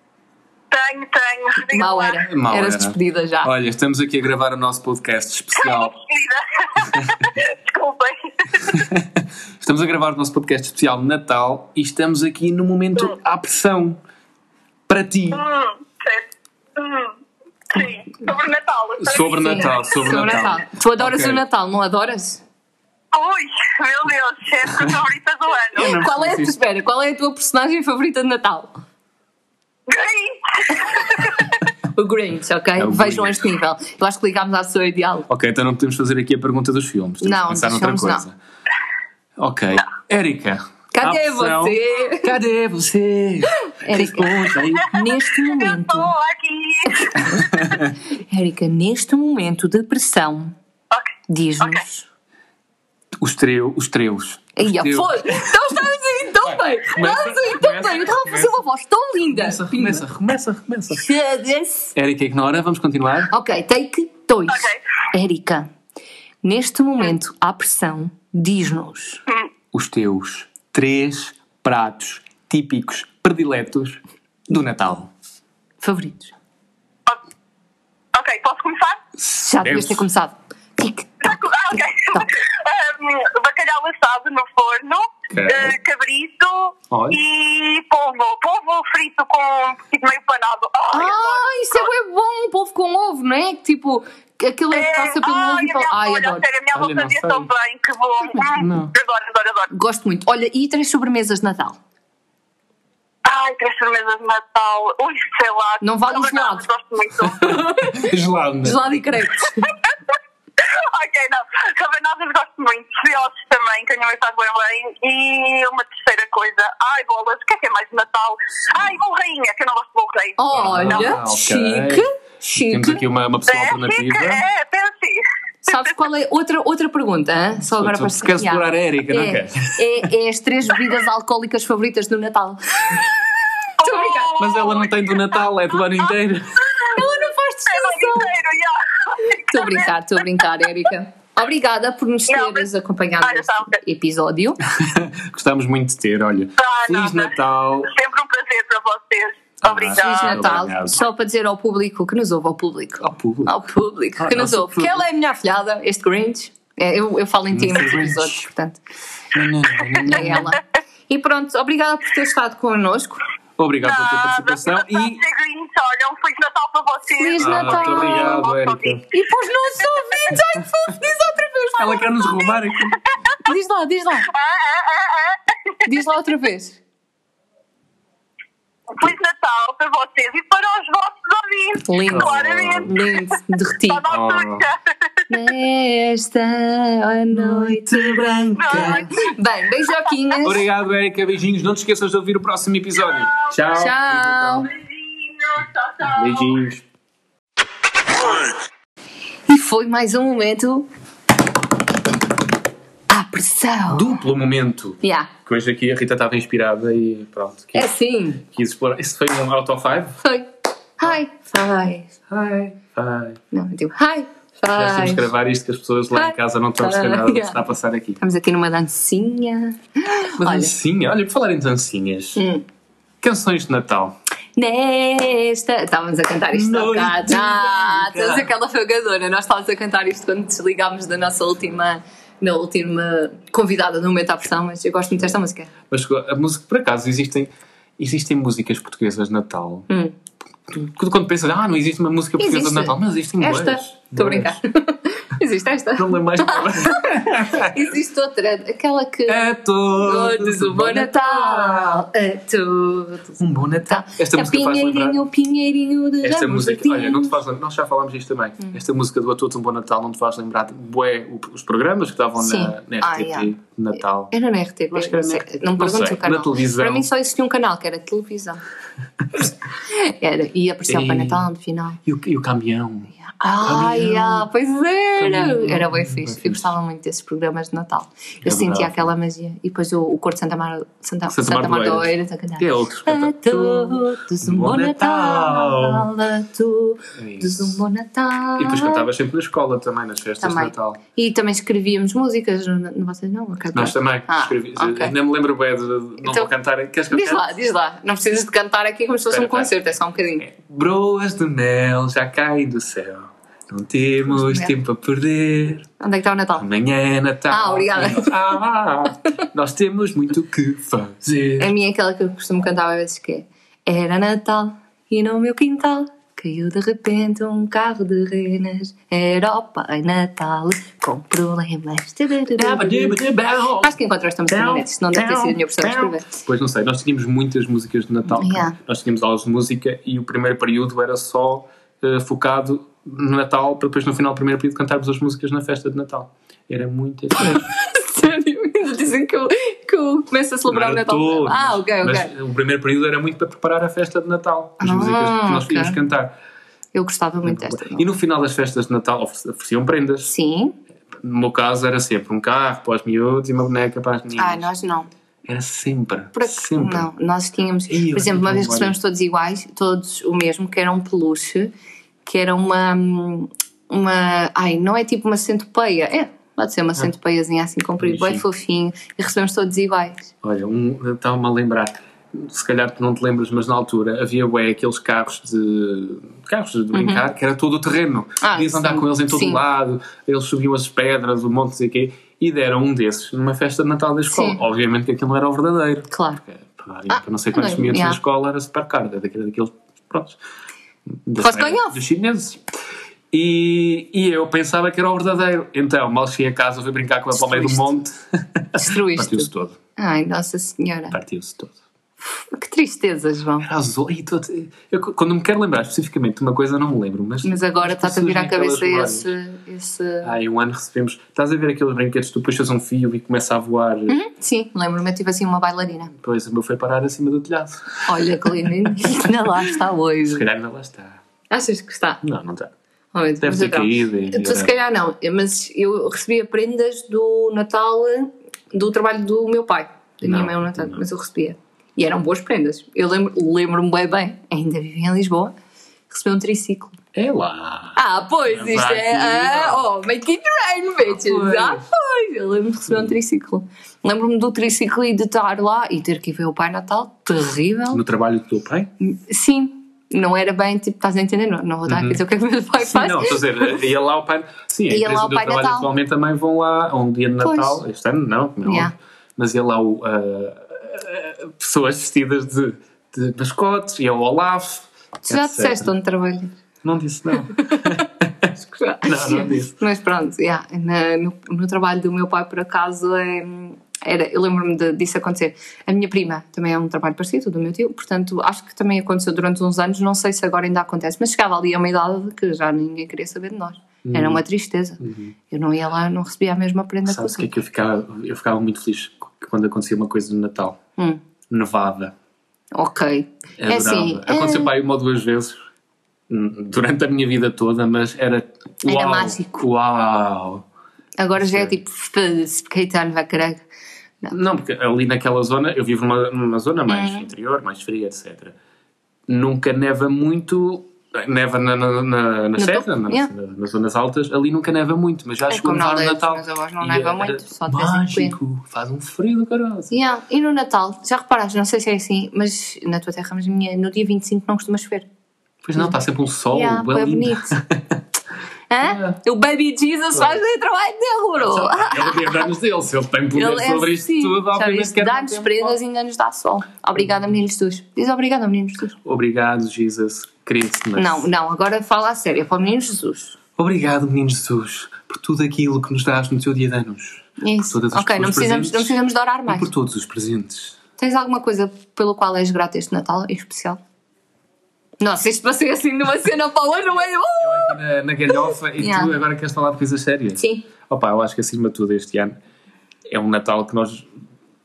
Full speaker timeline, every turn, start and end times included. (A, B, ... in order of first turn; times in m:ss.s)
0:00.7-0:02.2 A
0:01.7-0:03.5 B
0:02.2-0:05.9 C
0:05.6-0:08.8 A
0:08.7-0:14.0 C
0:14.9-0:15.4 C
0:15.3-0:17.2 A
0:17.7-0:20.1 A
0:19.0-0:21.4 C
0:19.3-0:22.4 B
0:23.1-0:25.9 A
0:25.7-0:26.5 C
0:25.8-0:28.8 B
0:29.9-0:31.4 A
0:31.9-0:35.3 B
0:32.8-0:33.4 C
0:35.3-0:38.3 C
0:37.2-0:38.2 B
0:39.4-0:45.1 C
0:40.9-0:42.3 B
0:43.6-0:46.1 B
0:45.2-0:47.4 A
0:46.9-0:50.5 B
0:47.5-0:47.9 C
0:50.9-0:51.8 A
0:51.3-0:52.0 B
0:53.2-0:55.6 C
0:54.6-1:00.0 B
0:56.4-0:58.6 C
0:59.3-1:01.1 C
1:00.9-1:01.9 B
1:01.9-1:03.3 C
1:03.3-1:05.7 B
1:04.5-1:04.8 A
1:06.4-1:09.2 B
1:09.7-1:15.1 C
1:15.8-1:16.3 B
1:18.1-1:19.0 A
1:19.2-1:20.0 C
1:19.3-1:21.3 B
1:21.2-1:31.9 A
1:25.3-1:25.8 C
1:26.9-1:27.2 C
1:30.9-1:36.4 B
1:34.7-1:39.7 A
1:36.7-1:37.5 C
1:38.6-1:38.9 C
1:39.7-1:41.8 B
1:43.2-1:47.6 A
1:45.8-1:46.6 B
1:47.2-1:49.0 C
1:47.4-1:48.1 B
1:48.6-1:49.7 B
1:50.6-2:01.1 A
2:00.4-2:03.0 B
2:00.5-2:04.4 C
2:03.5-2:05.9 A
2:05.6-2:14.3 B
2:07.7-2:10.0 C
2:13.8-2:14.9 A
2:14.4-2:16.6 C
2:16.7-2:17.0 A
2:16.8-2:18.3 B
2:17.7-2:20.4 A
2:19.3-2:24.6 B
2:22.3-2:22.7 A
2:23.2-2:23.8 A
2:24.7-2:27.9 C
2:26.6-2:30.5 A
2:29.6-2:31.0 C
2:30.0-2:38.8 B
2:33.0-2:33.6 C
2:34.2-2:35.0 C
2:37.5-2:38.4 C
2:39.3-2:40.5 C
2:40.0-2:43.2 B
2:43.6-2:45.2 C
2:43.8-2:49.0 A
2:47.1-2:48.4 B
2:47.4-2:49.0 C
2:49.1-2:52.1 B
2:51.8-2:53.0 C
2:53.4-2:54.3 B
2:54.3-2:55.8 A
2:55.8-2:56.8 B
2:58.9-3:03.2 A
3:01.8-3:04.0 B
3:02.1-3:02.9 C
3:03.9-3:04.8 A
3:04.1-3:04.6 C
3:05.3-3:10.6 B
3:07.3-3:09.1 C
3:08.6-3:09.1 A
3:10.4-3:14.7 C
3:13.7-3:14.7 B
3:14.7-3:16.5 A
3:16.0-3:16.8 C
3:19.5-3:20.9 B
3:23.1-3:24.2 B
3:23.9-3:27.9 C
3:25.0-3:25.3 B
3:27.7-3:28.4 B
3:28.4-3:30.2 C
3:30.2-3:32.2 B
3:32.3-3:33.4 C
3:33.5-3:35.3 B
3:34.7-3:38.2 C
3:36.1-3:37.6 B
3:38.2-3:40.7 B
3:40.4-3:42.4 C
3:42.4-3:42.6 B
3:43.2-3:44.1 C
3:44.6-3:55.7 B
3:46.5-3:48.5 C
3:55.9-3:59.9 C
3:59.9-4:00.1 B
4:00.7-4:04.6 C
4:02.4-4:17.4 B
4:05.9-4:07.8 C
4:09.3-4:12.0 C
4:13.4-4:15.2 C
4:16.2-4:24.3 C
4:22.4-4:23.5 B
4:24.3-4:28.6 B
4:24.9-4:27.1 C
4:29.4-4:32.0 B
4:30.9-4:31.5 C
4:32.0-4:34.5 C
4:33.2-4:49.0 B
4:35.2-4:36.7 C
4:38.4-4:39.1 C
4:41.3-4:46.1 C
4:47.2-4:47.8 C
4:48.6-4:51.0 C
4:50.4-4:55.1 B
4:53.7-4:57.5 C
4:56.2-4:56.5 B
4:57.1-5:00.4 B
4:59.3-4:59.8 C
5:00.4-5:05.9 C
5:04.3-5:04.7 B
5:06.0-5:06.7 B
5:06.6-5:11.7 C
5:07.5-5:08.4 B
5:11.6-5:23.2 B
5:22.5-5:24.0 C
5:23.8-5:26.2 B
5:24.5-5:37.7 C
5:28.3-5:28.8 B
5:37.4-5:42.3 B
5:40.7-5:46.3 C
5:44.8-5:46.0 B
5:46.9-5:48.1 B
5:47.4-5:50.3 C
5:50.2-5:50.8 B
5:51.2-5:54.7 C
5:54.4-5:55.1 B
5:55.4-5:57.1 C
5:56.3-6:01.7 B
5:57.9-5:59.0 C
6:02.2-6:10.3 B
6:08.0-6:08.4 C
6:10.4-6:30.4 C
6:16.9-6:17.2 B
6:18.4-6:19.6 B
6:24.3-6:24.6 B
6:26.1-6:26.4 B
6:27.1-6:28.2 B
6:31.2-6:32.6 C
6:31.4-6:32.0 B
6:33.3-6:39.8 C
6:37.3-6:37.9 B
6:38.7-6:41.2 B
6:41.1-6:41.8 C
6:42.2-6:43.7 B
6:43.6-6:49.3 C
6:47.4-6:50.3 B
6:50.2-6:54.2 C
6:54.1-6:56.1 B
6:56.1-6:59.3 C
6:58.1-7:00.4 B
7:00.2-7:01.2 C
7:01.5-7:02.2 B
7:02.2-7:02.7 C
7:03.1-7:15.5 B
7:03.4-7:04.8 C
7:10.2-7:11.0 C
7:16.1-7:17.0 B
7:17.1-7:19.8 C
7:17.9-7:28.0 B
7:21.0-7:21.8 C
7:27.9-7:28.9 C
7:29.0-7:33.8 B
7:31.9-7:32.2 C
7:32.8-7:45.9 C
7:34.9-7:35.9 B
7:37.4-7:37.8 B
7:38.6-7:38.9 B
7:45.2-7:46.5 B
7:46.8-7:48.5 C
7:47.6-7:48.0 B
7:48.6-8:07.5 B
7:49.0-7:49.8 C
8:04.0-8:04.4 C
8:05.0-8:05.3 C
8:07.0-8:10.8 C
8:11.5-8:12.1 C
8:12.7-8:14.7 B
8:13.6-8:15.6 C
8:16.3-8:20.6 C
8:18.8-8:19.6 B
8:21.2-8:23.6 B
8:21.4-8:21.8 C
8:24.3-8:28.6 C
8:26.9-8:27.3 B
8:29.3-8:39.9 C
8:32.6-8:33.3 B
8:35.5-8:38.4 B
8:39.9-8:45.1 B
8:45.6-8:48.0 C
8:46.5-8:47.6 B
8:48.7-8:52.5 B
8:48.8-8:49.2 C
8:51.4-8:55.8 C
8:53.3-8:59.0 B
8:59.0-9:01.3 C
9:01.0-9:03.4 B
9:03.6-9:09.0 C
9:07.4-9:09.7 B
9:09.5-9:10.8 C
9:11.0-9:13.8 B
9:15.0-9:17.8 B
9:17.4-9:22.4 C
9:18.8-9:19.1 B
9:20.4-9:20.6 B
9:23.1-9:24.1 C